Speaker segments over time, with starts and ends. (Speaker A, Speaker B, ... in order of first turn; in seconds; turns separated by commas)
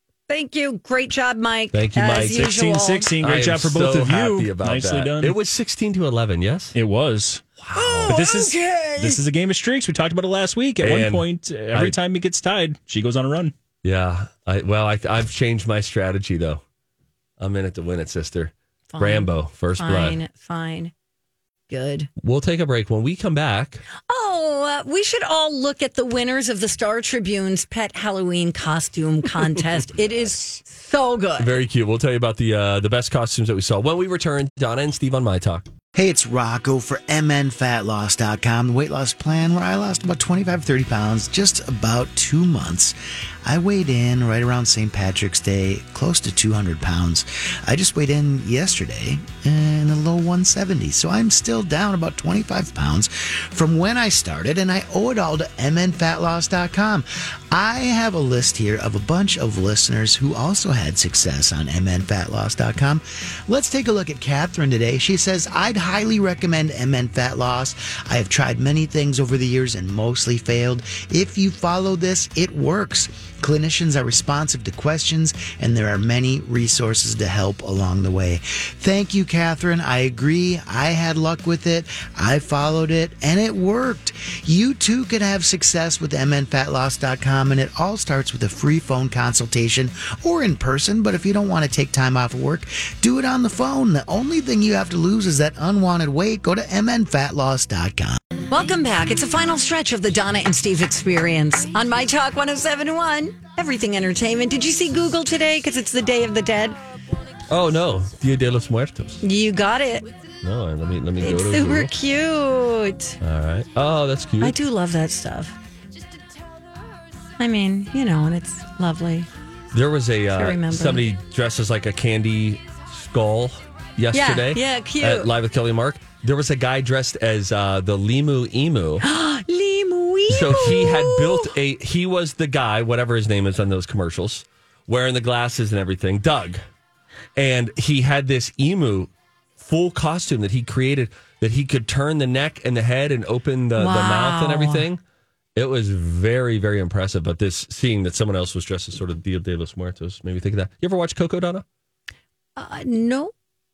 Speaker A: 0.3-3.1, Speaker B: 1.7-2.6, Speaker C: 2.2-5.4, Speaker B: 3.2-6.8, Speaker C: 6.7-13.5, Speaker B: 7.6-8.2, Speaker A: 7.7-9.2, Speaker B: 10.8-12.0, Speaker B: 13.8-16.6, Speaker B: 17.4-20.2, Speaker A: 18.9-20.9, Speaker A: 21.7-22.1, Speaker B: 22.2-23.8, Speaker A: 24.1-31.6, Speaker B: 31.4-35.7, Speaker D: 36.0-98.2, Speaker A: 98.5-106.8, Speaker B: 107.5-109.2, Speaker A: 109.2-110.1, Speaker B: 110.4-111.9, Speaker A: 111.2-113.2, Speaker B: 113.2-114.6, Speaker A: 114.4-115.5, Speaker A: 117.4-119.3, Speaker B: 119.7-129.0, Speaker A: 120.3-121.1, Speaker A: 124.1-125.3, Speaker A: 129.0-131.5, Speaker B: 130.3-136.6, Speaker B: 137.4-145.0, Speaker A: 143.8-144.9, Speaker B: 145.6-151.7, Speaker A: 152.6-153.3